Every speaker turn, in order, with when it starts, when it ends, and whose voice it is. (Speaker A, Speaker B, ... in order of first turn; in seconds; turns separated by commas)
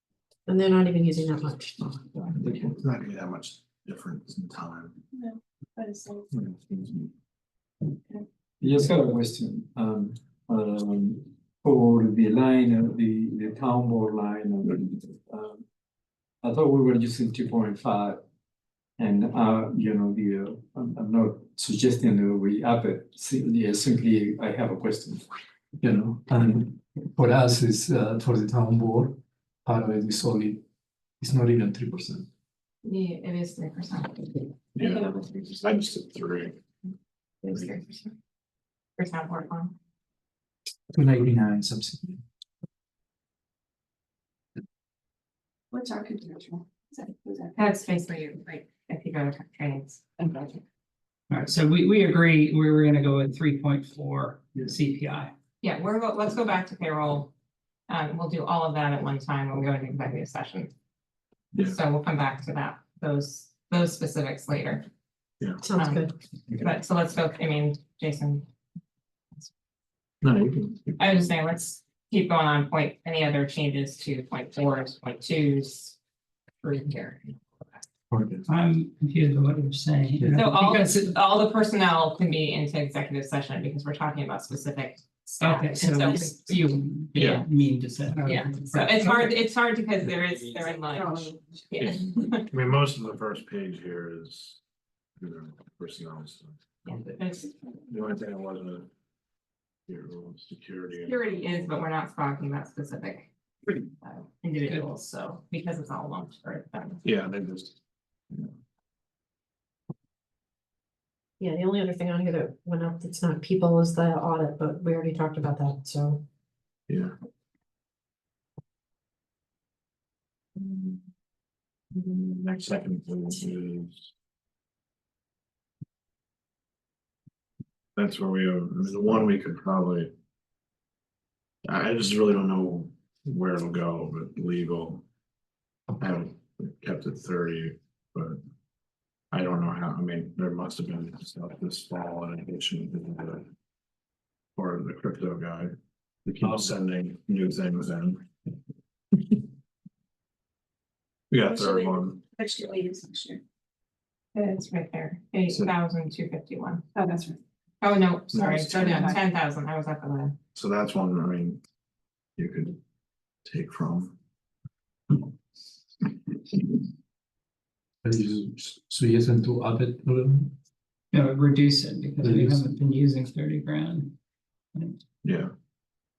Speaker A: 0.5-2.4, Speaker B: 2.4-5.0, Speaker C: 5.1-6.3, Speaker B: 6.3-7.1, Speaker D: 8.6-15.6, Speaker D: 16.4-18.2, Speaker D: 19.0-25.2, Speaker D: 25.8-30.6, Speaker D: 31.2-32.3, Speaker E: 32.8-35.5, Speaker B: 34.8-36.5, Speaker E: 37.4-38.1, Speaker E: 39.0-39.7, Speaker D: 40.9-42.2, Speaker C: 45.7-47.6, Speaker E: 47.6-50.5, Speaker F: 51.3-55.3, Speaker E: 55.6-57.3, Speaker E: 57.9-60.7, Speaker E: 61.6-64.8, Speaker A: 65.6-66.1, Speaker E: 65.8-66.1, Speaker E: 66.6-68.5, Speaker B: 70.2-71.2, Speaker E: 71.0-76.0, Speaker E: 76.6-77.5, Speaker D: 78.1-78.4, Speaker F: 78.5-81.1, Speaker D: 80.2-80.5, Speaker E: 80.3-86.4, Speaker F: 85.4-89.3, Speaker C: 86.0-86.3, Speaker B: 87.2-87.5, Speaker E: 88.2-92.5, Speaker C: 91.0-91.3, Speaker B: 91.8-94.6, Speaker B: 95.2-96.6, Speaker E: 96.8-97.5, Speaker B: 97.9-98.9, Speaker B: 99.9-101.8, Speaker E: 101.0-103.3, Speaker E: 104.0-107.0, Speaker B: 107.0-107.8, Speaker A: 111.4-116.2, Speaker B: 116.9-117.1, Speaker B: 120.6-121.0, Speaker B: 121.9-124.1, Speaker B: 128.0-130.1, Speaker B: 131.7-135.0, Speaker B: 136.0-138.4, Speaker B: 139.3-143.4, Speaker B: 144.6-145.7, Speaker B: 146.2-148.2, Speaker D: 146.4-146.7, Speaker B: 151.3-152.2, Speaker C: 151.4-153.4, Speaker E: 154.3-156.8, Speaker C: 156.9-157.4, Speaker E: 157.8-160.4, Speaker B: 158.3-159.1, Speaker C: 158.4-159.2, Speaker B: 160.6-161.6, Speaker B: 162.4-162.8, Speaker B: 163.4-164.2, Speaker D: 168.1-170.6, Speaker F: 171.1-174.2, Speaker D: 172.2-172.7, Speaker B: 175.2-175.5